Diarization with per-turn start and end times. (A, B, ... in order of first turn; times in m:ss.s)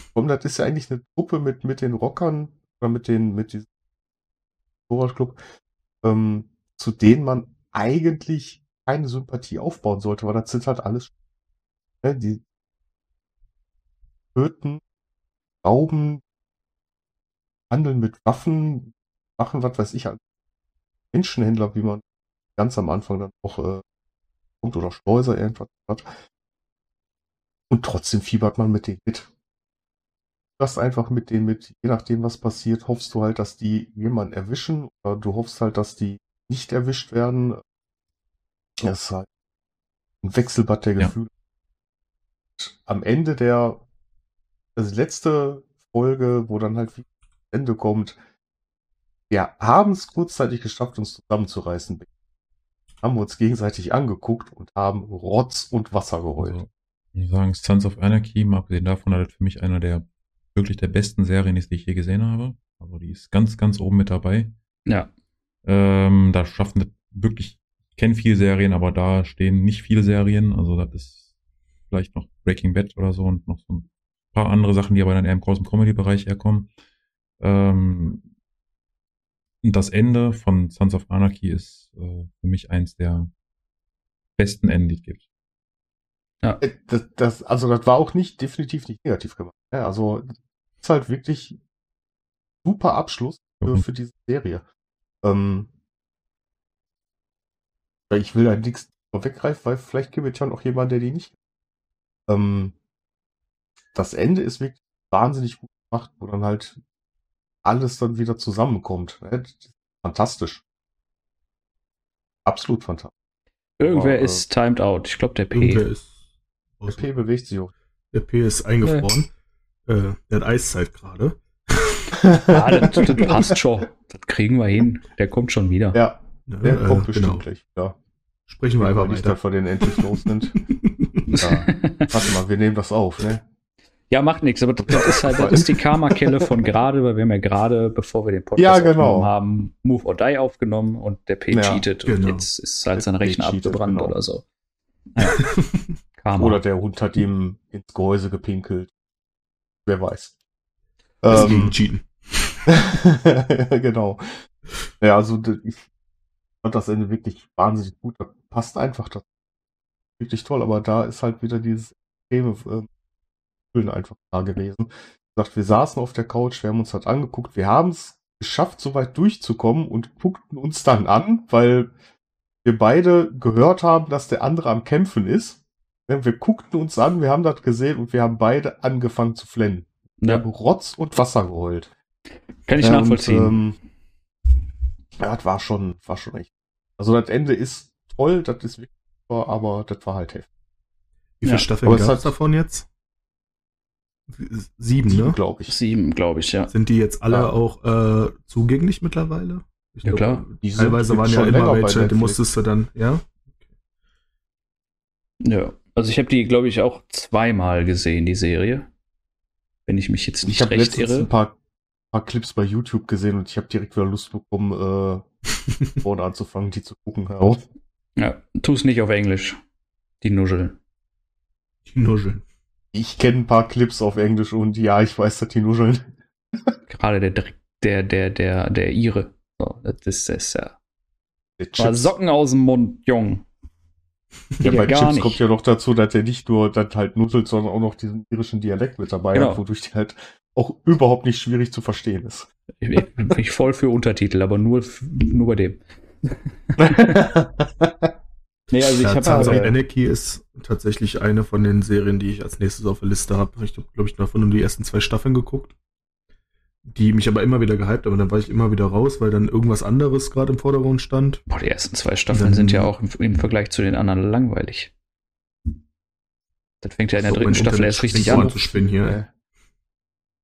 0:00.1-0:03.7 A
0:04.9-0:05.4 A
0:06.0-0:11.1 A
0:12.0-0:12.4 A
0:14.4-0:14.8 A
0:15.6-0:16.2 A
0:17.7-0:20.2 A
0:21.1-0:22.0 A
0:22.6-0:23.8 A
0:24.6-0:26.1 A
0:27.7-0:29.3 A
0:30.6-0:37.6 A
0:38.8-0:39.3 A
0:40.2-0:41.3 A
0:42.6-0:43.8 A
0:44.8-0:48.2 A
0:49.3-0:52.1 A
0:53.0-0:56.6 A
0:56.4-1:04.6 B
1:05.6-1:11.3 B
1:11.9-1:16.7 B
1:17.4-1:18.2 B
1:19.6-1:23.3 B
1:24.4-1:25.3 B
1:26.6-1:31.6 A
1:32.6-1:34.6 A
1:35.2-1:35.7 A
1:38.1-1:41.4 A
1:42.3-1:42.8 A
1:43.9-1:46.8 A
1:47.6-1:50.6 A
1:52.5-1:53.1 A
1:53.8-1:55.8 C
1:53.8-1:54.4 A
1:55.5-1:56.2 D
1:56.8-1:57.2 D
1:56.9-1:57.7 A
1:58.1-1:59.3 D
1:59.9-2:02.2 D
2:02.2-2:03.3 A
2:02.5-2:06.0 C
2:05.9-2:08.0 A
2:06.5-2:07.4 D
2:08.5-2:10.1 D
2:08.8-2:10.5 A
2:10.8-2:11.3 D
2:11.3-2:12.1 C
2:11.4-2:13.4 A
2:14.1-2:24.4 C
2:14.9-2:16.2 D
2:15.1-2:15.6 A
2:18.6-2:19.3 A
2:21.5-2:21.8 A
2:22.1-2:22.5 D
2:22.9-2:24.2 A
2:25.2-2:25.4 C
2:25.4-2:26.0 D
2:26.2-2:26.6 C
2:26.4-2:28.9 A
2:29.8-2:30.4 A
2:31.2-2:31.7 A
2:31.3-2:32.6 D
2:32.7-2:34.2 A
2:35.0-2:35.9 A
2:36.6-2:39.3 A
2:40.2-2:42.9 A
2:43.7-2:51.9 A
2:52.6-3:01.9 A
3:02.7-3:03.6 C
3:02.8-3:03.8 A
3:05.2-3:10.5 A
3:11.4-3:12.9 D
3:11.8-3:12.3 A
3:14.3-3:15.4 D
3:15.1-3:15.8 A
3:15.7-3:16.7 C
3:16.7-3:23.4 D
3:20.0-3:20.4 C
3:20.6-3:22.4 A
3:25.4-3:28.9 C
3:29.9-3:31.3 C
3:30.5-3:31.6 A
3:32.1-3:35.2 A
3:36.0-3:37.6 A
3:38.2-3:39.6 C
3:40.2-3:40.8 C
3:41.9-3:42.4 D
3:42.9-3:46.1 A
3:46.9-3:50.8 C
3:51.6-3:52.1 A
3:51.8-3:53.4 C
3:54.6-4:02.5 A
3:54.6-3:55.4 C
3:59.3-3:59.6 C
4:02.8-4:07.3 C
4:06.8-4:08.1 A
4:08.7-4:09.7 C
4:09.0-4:15.8 D
4:09.2-4:09.7 A
4:16.9-4:21.4 D
4:21.5-4:24.9 C
4:22.3-4:22.9 D
4:26.8-4:28.7 C
4:27.2-4:29.2 D
4:28.1-4:29.3 A